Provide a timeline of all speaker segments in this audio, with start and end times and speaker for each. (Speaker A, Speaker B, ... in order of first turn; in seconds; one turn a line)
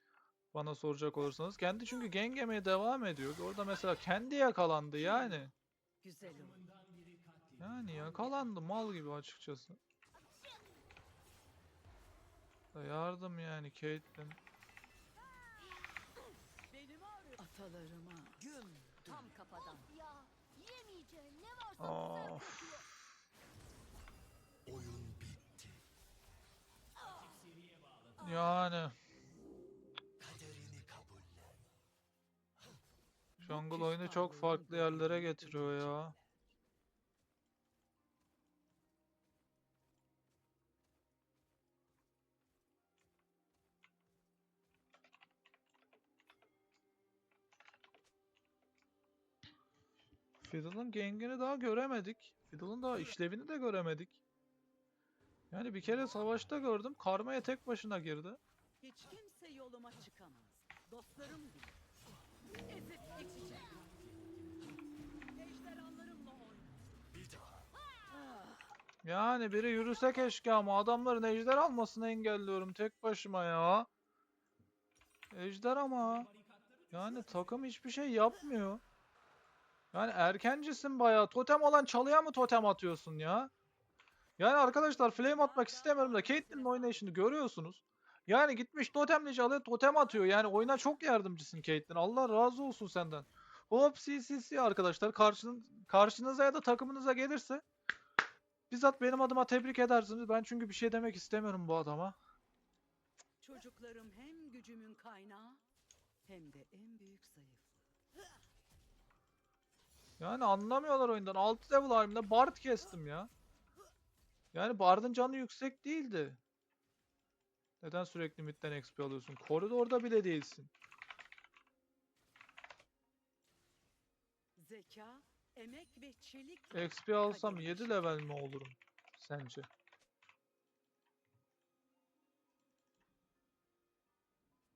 Speaker A: 0.5-5.5
Speaker B: 5.0-6.7
Speaker A: 7.6-9.8
Speaker B: 7.9-8.5
Speaker A: 12.7-14.4
Speaker B: 16.7-19.9
Speaker C: 19.9-22.9
Speaker A: 21.8-22.7
Speaker A: 28.2-29.0
Speaker B: 30.2-31.2
Speaker B: 33.4-36.4
Speaker A: 33.4-36.1
Speaker A: 50.4-54.2
Speaker A: 55.5-58.4
Speaker B: 58.8-61.9
Speaker B: 62.6-63.9
Speaker B: 65.3-67.1
Speaker B: 68.2-68.5
Speaker A: 69.0-73.9
Speaker A: 75.3-76.3
Speaker A: 76.9-78.8
Speaker A: 79.9-83.5
Speaker A: 84.4-97.6
Speaker B: 84.6-87.3
Speaker B: 90.2-90.7
Speaker A: 98.7-102.2
Speaker B: 103.4-105.6
Speaker B: 106.2-107.9
Speaker A: 110.2-113.3
Speaker A: 114.5-116.4
Speaker A: 117.8-120.7
Speaker B: 124.6-128.2
Speaker A: 126.7-129.7